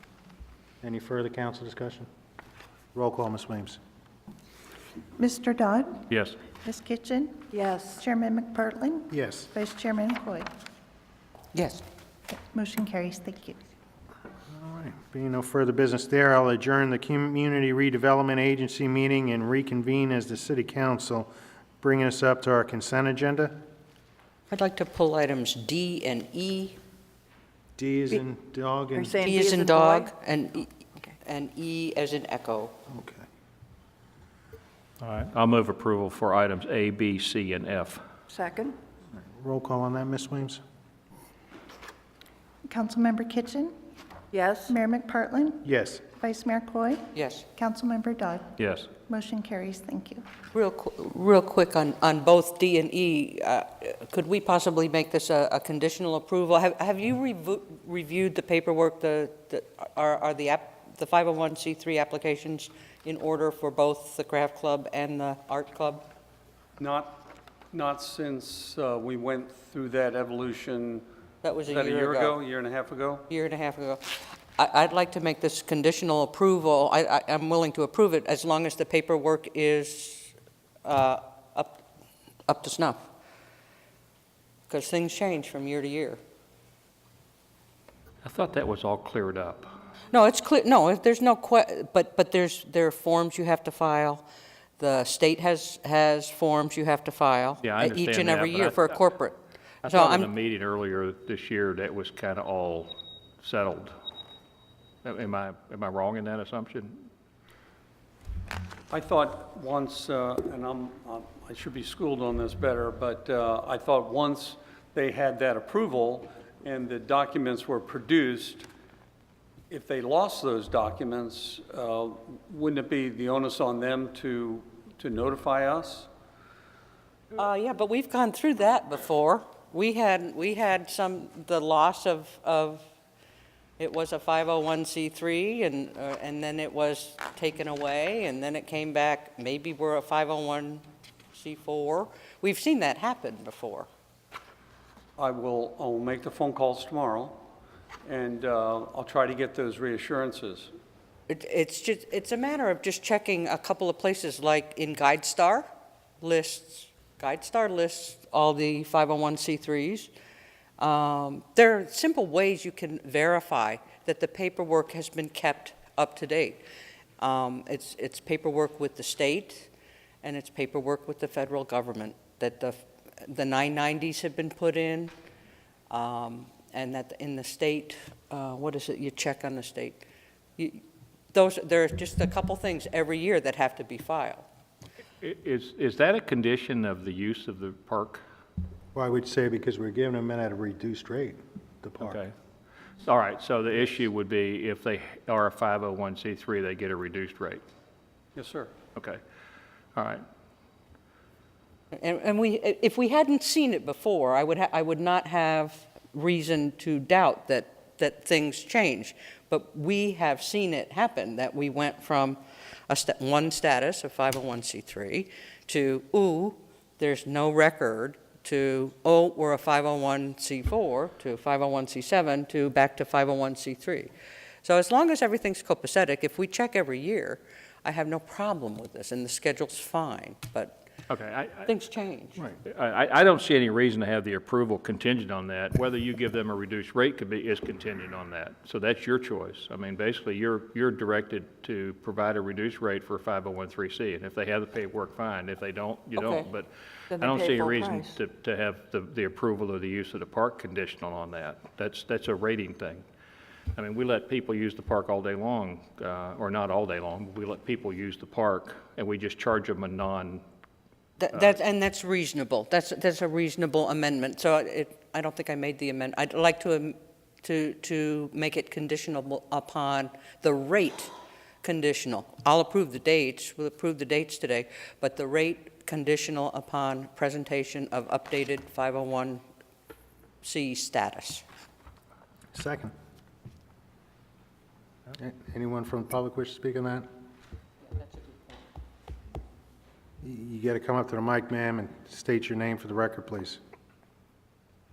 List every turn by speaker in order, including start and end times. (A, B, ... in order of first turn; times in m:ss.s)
0:00.8-0:02.1 A
0:02.9-0:03.8 A
0:05.2-0:06.1 B
0:06.1-0:06.4 C
0:06.6-0:07.5 B
0:07.5-0:08.0 D
0:08.0-0:10.5 B
0:09.1-0:09.5 A
0:12.3-0:13.6 B
0:14.5-0:21.3 A
0:21.8-0:23.6 A
0:24.5-0:26.8 E
0:27.8-0:29.4 A
0:28.9-0:30.1 D
0:29.2-0:32.7 E
0:32.9-0:33.2 A
0:35.0-0:38.0 C
0:38.3-0:38.8 D
0:39.2-0:40.6 A
0:42.6-0:43.7 B
0:44.3-0:44.8 D
0:44.7-0:48.5 B
0:45.6-0:46.1 A
0:47.1-0:47.5 E
0:48.6-0:48.9 C
0:49.1-0:50.2 B
0:50.5-1:06.1 E
1:06.8-1:11.0 F
1:11.4-1:12.4 E
1:11.7-1:13.2 F
1:13.3-1:21.8 E
1:22.5-1:23.1 E
1:24.7-1:26.2 E
1:28.2-1:29.7 C
1:30.1-1:34.2 E
1:34.8-1:40.3 E
1:37.6-1:39.0 C
1:39.8-1:42.9 C
1:43.4-1:43.9 C
1:45.0-1:47.0 C
1:48.9-1:58.7 F
1:59.7-2:06.1 F
2:07.3-2:12.9 E
2:13.8-2:23.9 E
2:25.2-2:27.4 F
2:28.0-2:30.7 F
2:31.3-2:35.6 E
2:36.2-2:40.1 E
2:40.8-2:46.6 E
2:47.2-2:49.7 E
2:50.2-2:55.1 E
2:55.9-3:00.0 E
3:00.6-3:04.4 E
3:05.2-3:08.2 C
3:08.9-3:12.2 A
3:12.0-3:12.3 C
3:13.0-3:17.6 C
3:18.3-3:18.7 F
3:18.9-3:19.2 C
3:19.9-3:20.2 C
3:21.9-3:44.1 E
3:44.6-3:50.9 E
3:51.1-3:51.7 C
3:51.6-3:52.4 E
3:52.6-4:13.0 C
4:07.1-4:08.1 D
4:13.8-4:20.4 C
4:21.2-4:31.1 E
4:31.6-4:39.4 E
4:40.4-4:41.4 E
4:42.5-4:42.9 A
4:45.2-4:47.0 A
4:48.0-4:48.5 E
4:50.2-4:53.6 A